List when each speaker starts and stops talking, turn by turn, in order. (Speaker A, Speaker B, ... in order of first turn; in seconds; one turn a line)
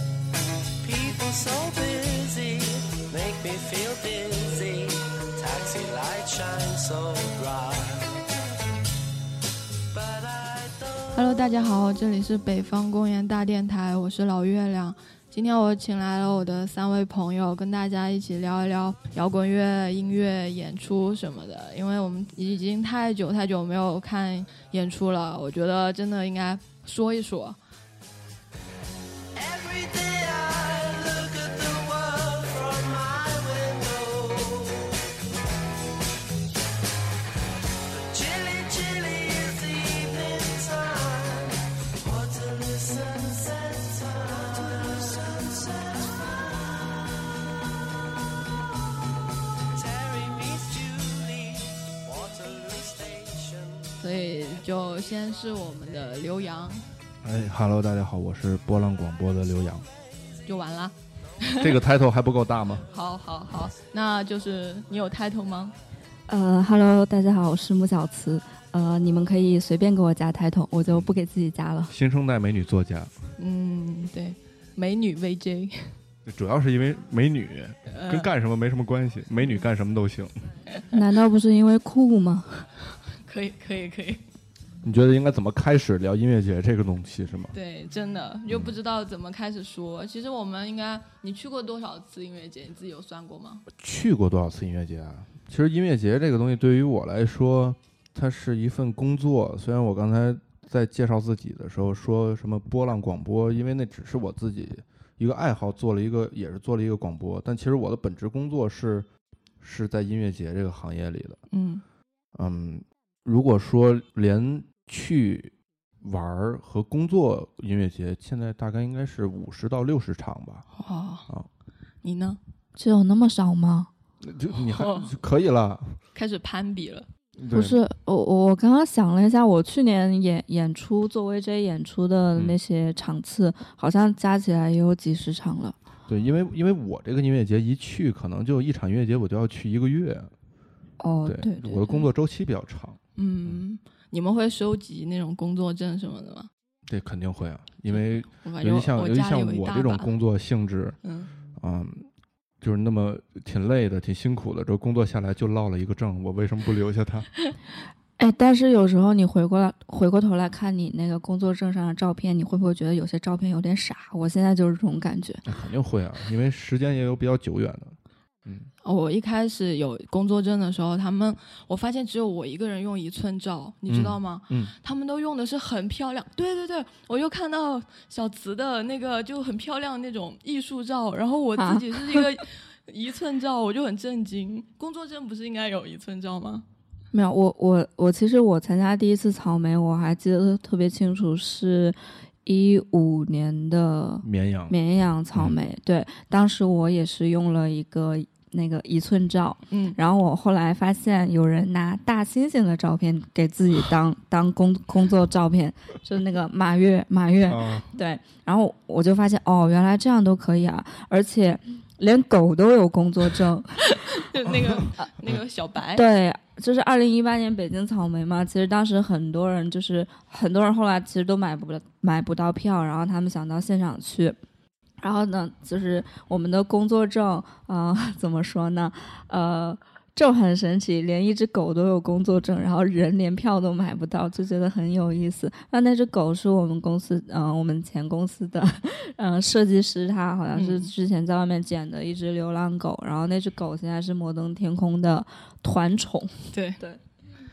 Speaker A: 0.8-8.2
Speaker A: 9.9-11.7
Speaker B: 11.1-27.6
Speaker A: 29.3-35.0
Speaker A: 37.9-47.5
Speaker A: 49.7-54.0
Speaker B: 54.0-56.8
Speaker C: 57.2-59.9
Speaker B: 60.5-61.8
Speaker C: 61.6-62.9
Speaker B: 62.9-65.7
Speaker D: 66.3-71.9
Speaker C: 71.9-73.1
Speaker B: 73.4-75.9
Speaker C: 76.2-80.5
Speaker B: 77.9-78.3
Speaker D: 80.9-82.6
Speaker B: 83.2-84.2
Speaker C: 84.8-87.5
Speaker B: 87.5-93.6
Speaker C: 88.5-88.7
Speaker C: 93.7-109.1
Speaker C: 109.6-111.4
Speaker B: 111.5-111.8
Speaker C: 112.3-120.7
Speaker B: 120.8-121.3
Speaker B: 122.0-122.4
Speaker D: 122.8-123.9
Speaker C: 124.2-126.0
Speaker B: 124.7-125.1
Speaker B: 126.1-127.1
Speaker C: 127.4-127.8
Speaker D: 127.5-135.8
Speaker C: 136.1-140.3
Speaker D: 141.0-141.9
Speaker C: 141.2-143.6
Speaker B: 143.2-146.5
Speaker C: 146.9-151.0
Speaker B: 147.9-150.1
Speaker B: 151.0-151.3
Speaker C: 151.6-152.1
Speaker C: 152.6-157.3
Speaker D: 158.2-165.4
Speaker C: 165.4-168.7
Speaker B: 168.8-186.6
Speaker C: 173.9-174.7
Speaker D: 181.6-182.3
Speaker D: 187.1-213.8
Speaker C: 194.2-194.8
Speaker B: 199.7-200.0
Speaker C: 207.5-207.9
Speaker B: 213.9-216.1
Speaker D: 215.9-224.4
Speaker D: 225.0-247.0
Speaker B: 240.5-240.9
Speaker B: 246.5-246.8